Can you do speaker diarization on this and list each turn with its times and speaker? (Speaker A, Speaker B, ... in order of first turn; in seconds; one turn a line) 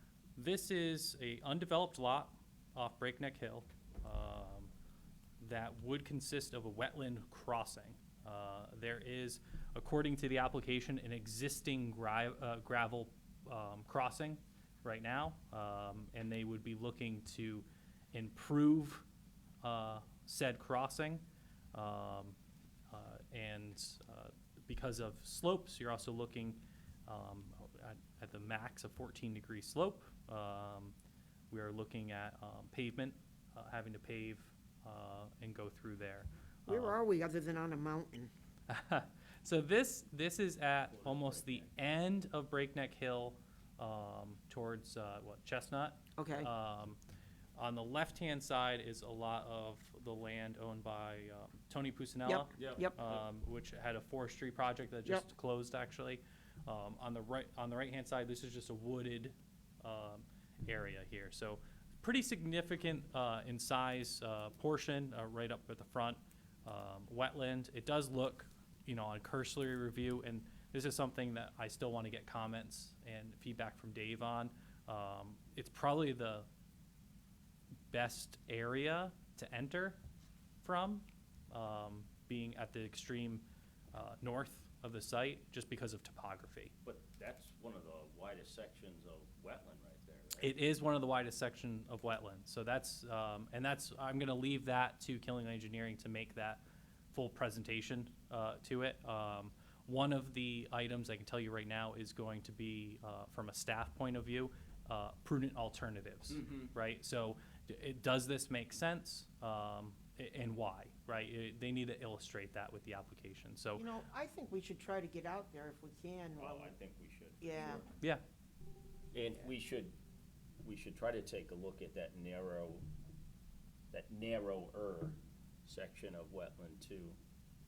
Speaker A: 0.4-4.7
Speaker A: 5.4-19.1
Speaker A: 19.6-22.4
Speaker A: 22.9-30.9
Speaker A: 31.5-37.0
Speaker B: 36.7-38.3
Speaker A: 38.7-47.0
Speaker C: 40.9-41.7
Speaker B: 46.2-46.5
Speaker A: 47.6-76.5
Speaker B: 52.3-53.0
Speaker C: 52.6-53.2
Speaker A: 77.9-80.0
Speaker A: 80.6-86.7
Speaker C: 86.8-90.6
Speaker A: 90.4-113.9
Speaker C: 106.4-106.6
Speaker B: 113.8-116.8
Speaker C: 116.4-117.4
Speaker B: 117.4-117.9
Speaker C: 119.1-119.9
Speaker C: 120.6-122.8
Speaker C: 123.9-127.2